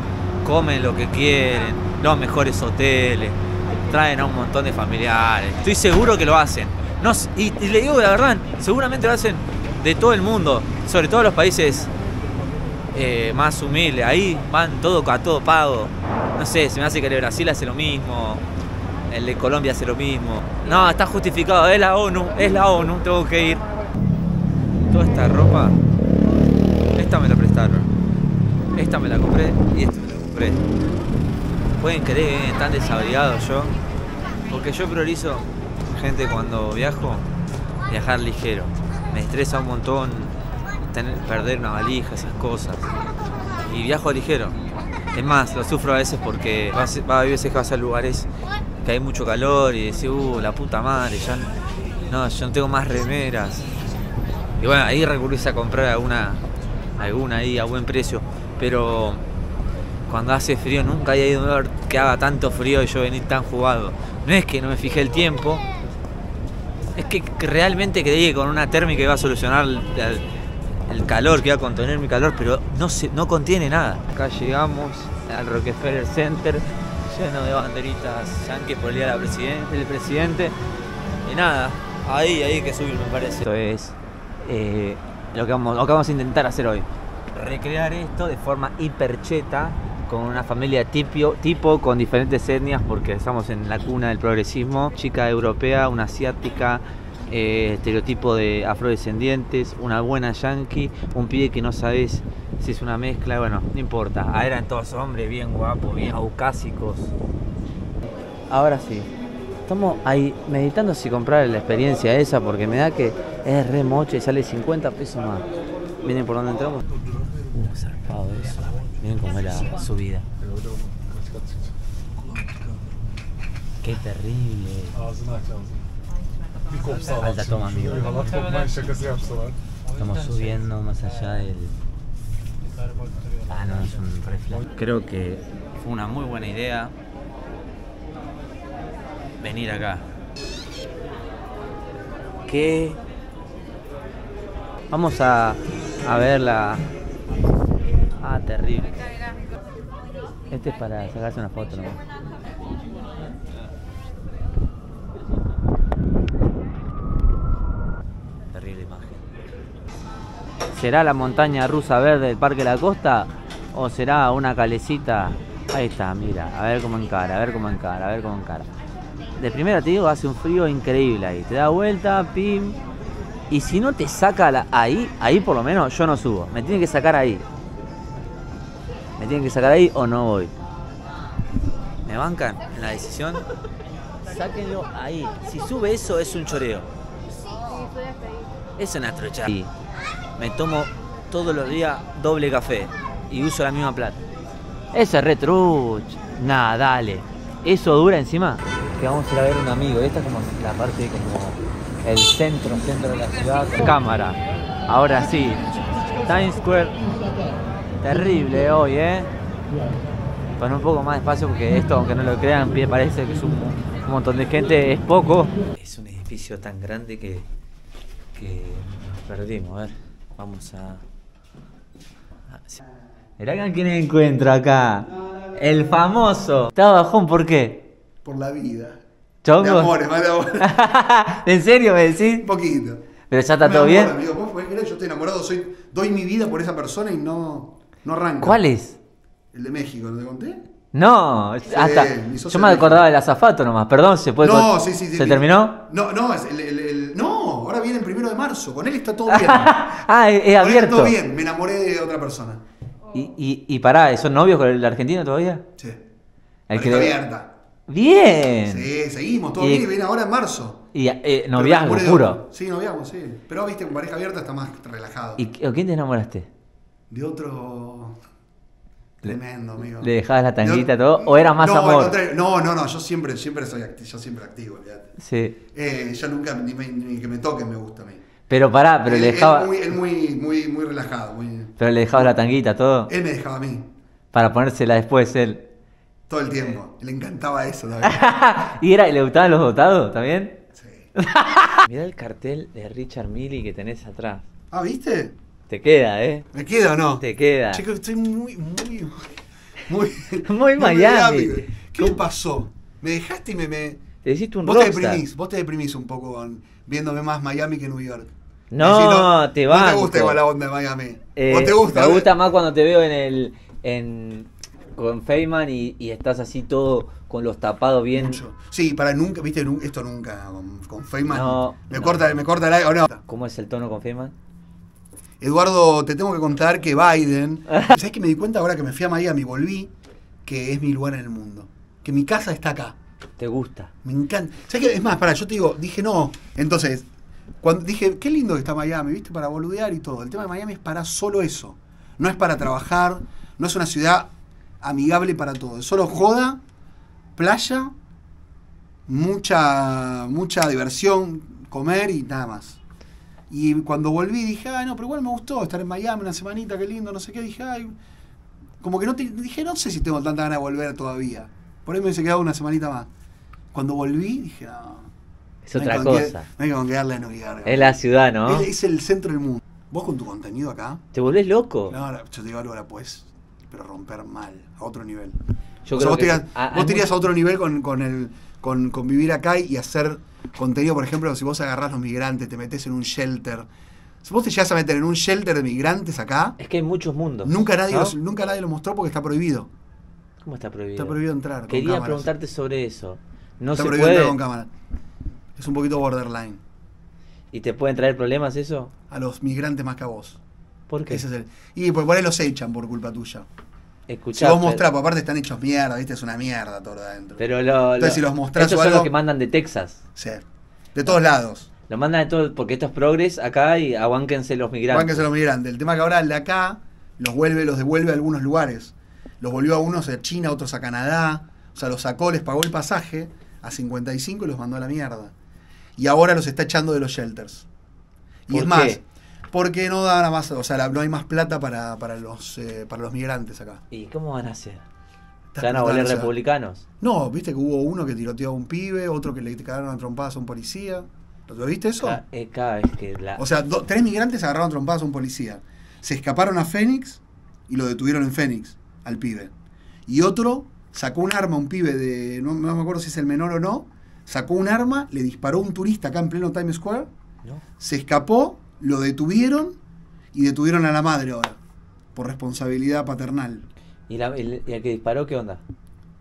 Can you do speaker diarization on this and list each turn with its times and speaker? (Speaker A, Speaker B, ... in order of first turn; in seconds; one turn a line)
Speaker A: 0.4-11.9
Speaker A: 12.9-18.4
Speaker A: 19.1-23.6
Speaker A: 24.8-25.8
Speaker A: 26.9-27.9
Speaker A: 28.7-30.6
Speaker A: 31.8-33.8
Speaker A: 34.5-37.3
Speaker A: 37.9-42.9
Speaker A: 43.6-44.6
Speaker A: 45.1-48.3
Speaker A: 48.8-51.5
Speaker A: 52.1-53.7
Speaker A: 54.6-56.4
Speaker A: 57.0-59.2
Speaker A: 60.1-65.7
Speaker A: 67.0-70.2
Speaker A: 70.9-80.6
Speaker A: 81.2-107.1
Speaker A: 108.5-109.1
Speaker A: 109.7-115.5
Speaker A: 116.0-116.9
Speaker A: 117.5-120.3
Speaker B: 120.5-121.6
Speaker A: 123.8-125.0
Speaker B: 125.2-125.8
Speaker B: 126.7-127.1
Speaker A: 127.0-128.6
Speaker B: 128.2-129.6
Speaker A: 129.9-131.8
Speaker A: 133.5-136.9
Speaker A: 139.4-140.1
Speaker A: 142.4-143.0
Speaker A: 144.9-146.9
Speaker A: 148.2-149.0
Speaker A: 150.5-152.0
Speaker A: 158.5-159.2
Speaker A: 160.7-168.7
Speaker A: 169.4-172.8
Speaker A: 173.5-177.5
Speaker A: 179.2-180.5
Speaker A: 182.1-183.5
Speaker A: 184.2-186.9
Speaker A: 188.8-189.7
Speaker A: 190.4-194.2
Speaker A: 194.9-205.7
Speaker A: 206.2-207.0
Speaker A: 208.0-209.3
Speaker A: 210.6-217.5
Speaker A: 218.3-221.0
Speaker A: 222.5-222.8
Speaker A: 223.4-227.9
Speaker C: 228.2-229.0
Speaker A: 229.4-229.9
Speaker C: 229.6-230.7
Speaker A: 230.6-232.5
Speaker C: 232.4-233.0
Speaker A: 233.3-234.1
Speaker C: 233.6-238.6
Speaker A: 238.4-239.0
Speaker C: 239.5-240.7
Speaker A: 240.9-245.8
Speaker C: 241.7-243.1
Speaker C: 244.4-250.0
Speaker A: 249.3-251.2
Speaker C: 250.6-252.6
Speaker A: 253.1-255.7
Speaker A: 256.7-257.2
Speaker C: 256.7-257.5
Speaker A: 257.9-258.9
Speaker C: 258.7-260.8
Speaker A: 259.6-259.9
Speaker A: 260.9-262.4
Speaker C: 261.5-265.4
Speaker A: 265.4-266.5
Speaker C: 267.1-268.2
Speaker C: 269.2-275.1
Speaker A: 269.9-272.2
Speaker A: 275.2-275.6
Speaker C: 275.7-278.2
Speaker A: 278.5-279.9
Speaker C: 279.1-282.3
Speaker A: 281.8-283.1
Speaker C: 283.1-283.9
Speaker A: 284.3-285.7
Speaker C: 286.3-288.2
Speaker A: 286.5-286.7
Speaker A: 288.0-290.6
Speaker C: 290.8-291.1
Speaker A: 291.2-294.5
Speaker C: 294.7-295.3
Speaker A: 295.7-296.5
Speaker C: 296.5-304.0
Speaker A: 297.2-297.8
Speaker A: 300.4-302.2
Speaker A: 304.2-305.2
Speaker C: 304.6-312.3
Speaker A: 308.7-310.4
Speaker A: 311.4-318.4
Speaker C: 318.1-323.2
Speaker A: 321.3-322.5
Speaker A: 323.3-324.3
Speaker C: 325.4-329.9
Speaker C: 330.5-332.9
Speaker A: 333.4-333.9
Speaker C: 334.0-337.1
Speaker C: 337.6-344.3
Speaker C: 344.8-346.6
Speaker C: 347.4-347.9
Speaker C: 349.1-352.8
Speaker C: 353.5-357.9
Speaker C: 358.8-363.1
Speaker C: 363.7-365.1
Speaker A: 365.6-366.4
Speaker C: 365.8-371.0
Speaker A: 367.7-368.7
Speaker A: 371.1-372.0
Speaker C: 371.9-375.4
Speaker A: 375.9-377.1
Speaker C: 375.9-383.7
Speaker C: 384.2-386.6
Speaker A: 386.6-388.1
Speaker C: 387.4-389.7
Speaker A: 390.4-391.2
Speaker C: 391.0-392.3
Speaker A: 391.7-394.4
Speaker C: 393.7-394.7
Speaker C: 395.6-396.6
Speaker A: 397.5-398.9
Speaker C: 399.1-400.4
Speaker A: 400.9-401.2
Speaker C: 401.1-403.5
Speaker A: 404.1-404.8
Speaker C: 404.3-407.5
Speaker A: 407.4-410.0
Speaker C: 408.0-409.1
Speaker C: 410.2-410.4
Speaker C: 410.9-411.7
Speaker A: 411.9-415.2
Speaker C: 414.9-425.3
Speaker C: 426.0-427.7
Speaker C: 428.5-433.8
Speaker A: 428.5-429.0
Speaker A: 433.9-434.8
Speaker C: 435.5-436.3
Speaker A: 435.6-436.8
Speaker C: 437.0-442.2
Speaker A: 442.0-443.4
Speaker C: 443.4-449.5
Speaker C: 450.1-457.1
Speaker C: 457.8-459.8
Speaker C: 460.3-461.6
Speaker C: 462.1-463.7
Speaker A: 464.1-465.6